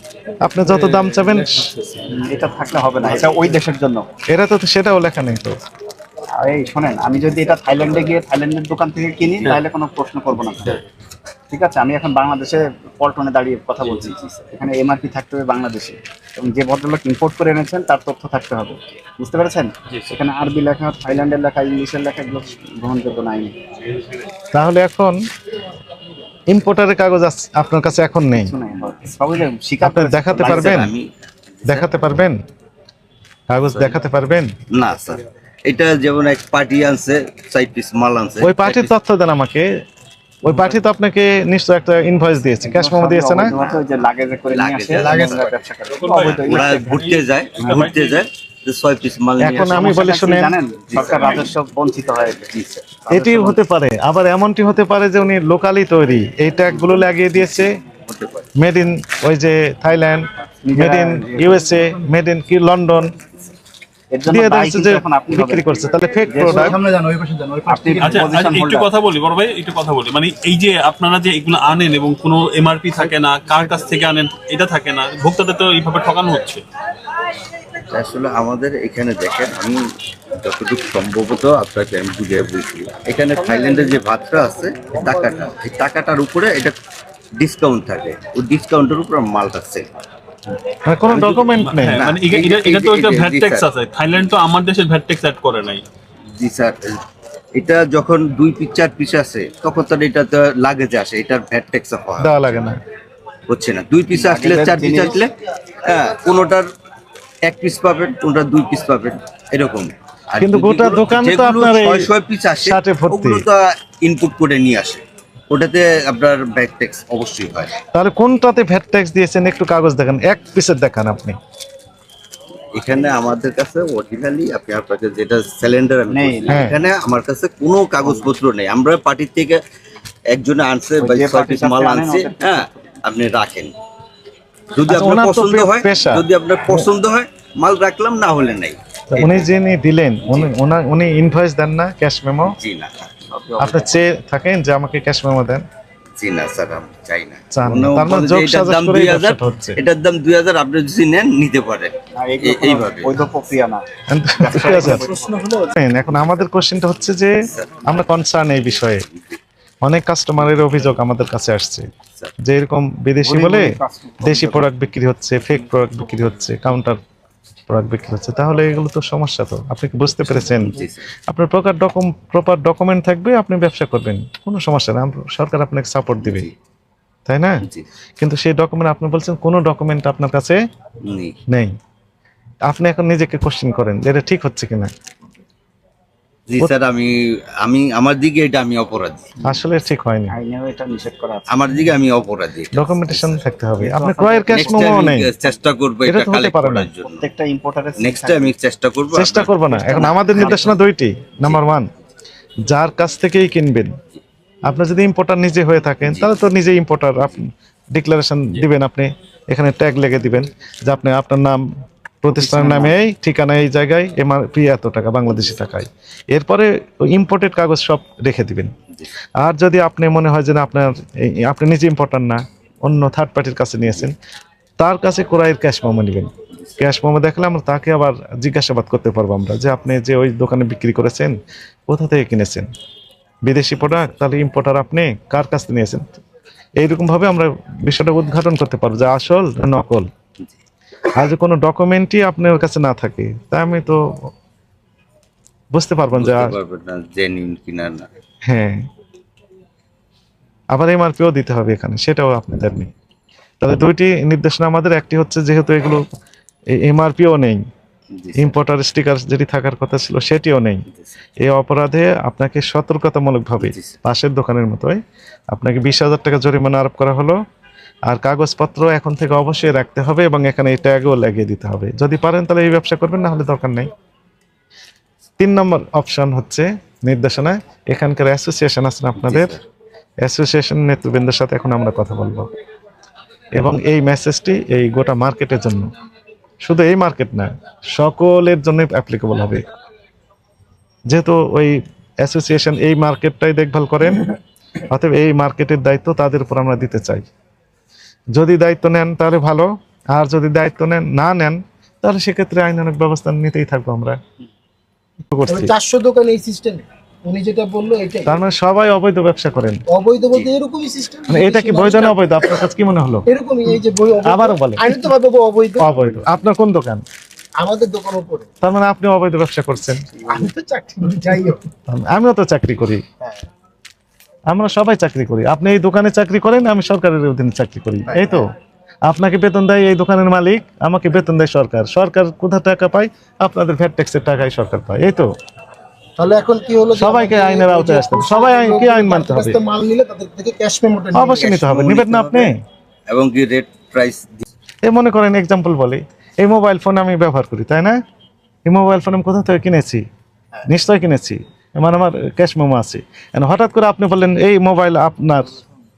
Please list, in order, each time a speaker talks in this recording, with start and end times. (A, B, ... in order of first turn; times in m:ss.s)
0:00.4-0:01.7 A
0:02.1-0:04.1 B
0:04.3-0:05.5 A
0:06.4-0:10.8 B
0:11.5-0:23.5 B
0:13.8-0:14.5 C
0:24.5-0:25.2 A
0:26.5-0:28.5 A
0:28.3-0:30.9 B
0:29.8-0:30.9 A
0:30.3-0:31.9 C
0:31.6-0:32.4 A
0:33.5-0:34.5 A
0:33.7-0:34.0 C
0:34.7-0:38.9 C
0:38.4-0:39.7 A
0:40.4-0:43.5 A
0:42.6-0:47.0 B
0:43.5-0:43.8 C
0:44.5-0:45.4 C
0:46.0-0:48.2 D
0:46.3-0:49.8 C
0:47.6-0:47.9 B
0:49.4-0:50.5 A
0:49.4-0:52.4 B
0:50.9-0:51.5 C
0:52.5-0:53.1 C
0:53.1-0:57.8 A
0:53.1-0:53.6 B
0:57.1-0:58.5 C
0:58.6-1:03.1 A
1:00.6-1:01.8 B
1:04.1-1:06.8 B
1:04.3-1:06.8 A
1:06.4-1:08.3 E
1:07.7-1:08.9 B
1:08.0-1:16.6 D
1:17.9-1:19.8 C
1:20.4-1:26.7 C
1:27.4-1:29.9 C
1:30.8-1:32.2 A
1:31.1-1:33.7 C
1:31.6-1:35.9 D
1:36.3-1:37.0 C
1:37.5-1:42.7 C
1:42.2-1:42.8 A
1:43.5-1:45.3 C
1:44.1-1:45.2 B
1:45.8-1:46.6 C
1:47.4-1:57.8 C
1:50.4-1:52.1 A
1:52.6-1:53.5 A
1:57.9-2:01.4 A
2:02.7-2:09.6 C
2:06.1-2:06.8 B
2:06.5-2:06.7 A
2:08.0-2:08.3 B
2:10.3-2:13.7 C
2:11.0-2:12.9 B
2:14.7-2:19.5 C
2:14.9-2:16.9 A
2:19.1-2:22.6 A
2:20.3-2:20.5 C
2:22.4-2:23.1 C
2:23.3-2:23.9 B
2:23.6-2:25.6 A
2:26.2-2:33.2 C
2:27.5-2:29.8 A
2:32.1-2:33.8 B
2:34.1-2:35.0 A
2:34.4-2:35.5 B
2:35.6-2:37.3 A
2:37.5-2:38.1 C
2:37.8-2:39.1 A
2:38.7-2:39.4 C
2:39.8-2:41.8 A
2:42.4-2:47.0 A
2:43.2-2:44.7 B
2:47.7-2:56.5 A
2:50.3-2:51.0 C
2:56.2-2:56.5 C
2:57.3-2:57.6 A
2:58.2-3:00.6 A
3:01.0-3:01.4 C
3:02.7-3:04.9 A
3:06.5-3:09.3 C
3:09.4-3:10.3 A
3:10.3-3:11.5 B
3:11.5-3:13.4 C
3:12.7-3:15.3 A
3:13.8-3:15.1 B
3:14.5-3:17.2 C
3:16.0-3:16.9 A
3:17.0-3:18.6 B
3:18.0-3:20.7 C
3:19.1-3:21.9 A
3:19.7-3:20.8 B
3:22.6-3:23.9 A
3:24.7-3:31.6 A
3:26.0-3:26.4 C
3:32.2-3:38.7 A
3:32.3-3:32.9 B
3:39.4-3:44.2 A
3:44.8-3:51.4 A
3:51.9-3:52.7 A
3:53.4-3:56.2 A
3:53.8-3:54.1 C
3:56.8-4:00.1 A
4:01.1-4:04.0 A
4:05.7-4:06.5 A
4:06.1-4:08.1 C
4:08.4-4:08.8 A
4:10.7-4:12.9 A
4:13.6-4:16.0 A
4:16.8-4:17.6 A
4:18.1-4:18.6 C
4:18.4-4:20.8 A
4:21.4-4:25.0 A
4:23.6-4:24.0 C
4:25.5-4:27.4 A
4:28.1-4:33.9 A
4:35.4-4:39.6 A
4:39.2-4:39.6 C
4:40.2-4:42.5 A
4:43.5-4:45.9 A
4:46.6-4:49.6 A
4:51.1-4:54.3 A
4:54.9-4:57.2 A
4:58.3-5:04.2 A
5:05.3-5:05.7 A
5:05.5-5:08.4 E
5:08.2-5:09.8 A
5:09.9-5:12.2 E
5:11.3-5:13.3 A
5:13.3-5:16.0 E
5:14.2-5:15.1 A
5:15.8-5:17.0 A
5:17.6-5:18.5 E
5:18.6-5:20.1 A
5:20.3-5:21.6 E
5:21.9-5:23.0 A
5:24.5-5:28.4 A
5:29.0-5:35.3 A
5:36.2-5:41.6 E
5:36.9-5:39.6 A
5:41.1-5:42.6 A
5:41.4-5:42.5 C
5:43.1-5:44.4 C
5:44.8-5:47.9 A
5:48.6-5:50.0 A
5:50.7-5:55.5 A